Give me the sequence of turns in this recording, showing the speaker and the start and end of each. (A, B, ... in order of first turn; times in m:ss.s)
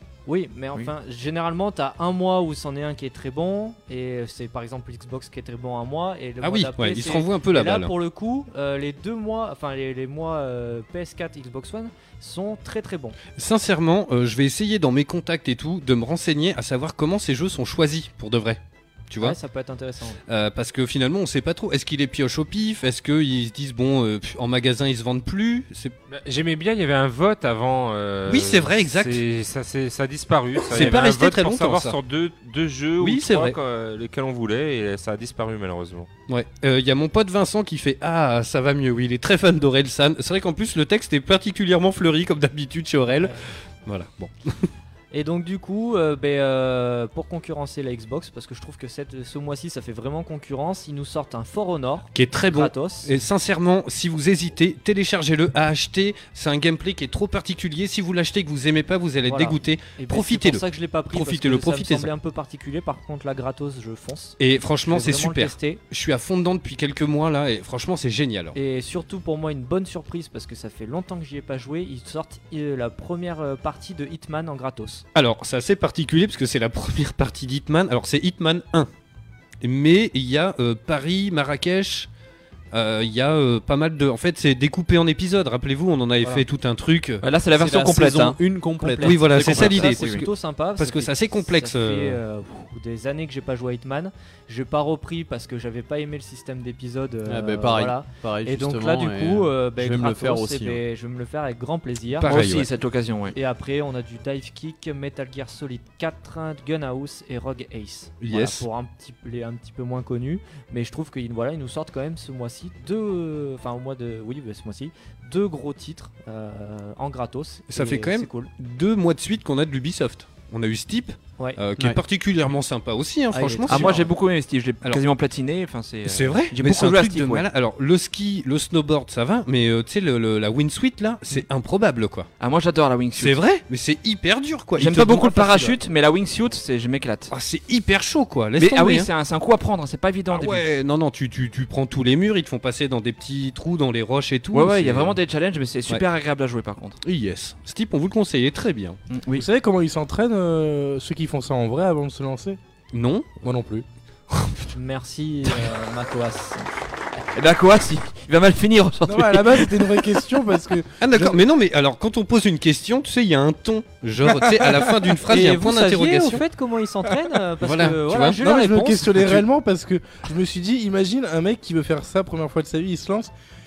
0:00.3-0:13.2 A
0:06.4-0:07.9 B
0:13.4-0:19.4 B
0:19.2-0:20.2 A
0:20.3-0:26.0 B
0:26.1-0:36.1 C
0:28.3-0:29.2 B
0:30.7-0:32.0 B
0:33.0-0:33.6 B
0:36.3-0:43.3 B
0:43.9-0:44.7 B
0:45.1-0:53.1 A
0:52.1-1:02.1 B
0:59.3-1:05.8 A
1:04.4-1:08.6 B
1:08.6-1:15.0 A
1:15.2-1:18.9 B
1:19.6-1:22.1 B
1:22.7-1:27.2 B
1:27.2-1:28.4 D
1:27.5-1:29.4 E
1:28.8-1:42.4 A
1:29.0-1:32.2 B
1:29.3-1:30.2 D
1:37.3-1:40.8 E
1:42.2-1:42.7 B
1:42.3-1:43.4 D
1:43.3-1:58.5 A
1:48.2-1:48.7 B
1:57.7-2:04.1 B
2:03.3-2:04.1 A
2:03.7-2:07.5 D
2:06.1-2:12.3 B
2:12.4-2:13.4 D
2:13.2-2:15.8 B
2:14.8-2:17.3 D
2:17.3-2:19.1 B
2:18.6-2:20.7 D
2:20.3-2:25.2 B
2:24.5-2:27.0 D
2:27.0-2:29.0 B
2:29.1-2:29.4 D
2:29.3-2:32.6 F
2:32.9-2:33.4 B
2:33.4-2:33.8 F
2:34.4-2:34.6 B
2:34.7-2:36.7 A
2:37.3-2:39.9 D
2:39.1-2:41.3 F
2:41.0-2:46.4 B
2:44.4-2:45.0 F
2:45.3-2:49.3 A
2:47.6-2:48.4 B
2:48.4-2:53.3 F
2:49.1-2:49.4 B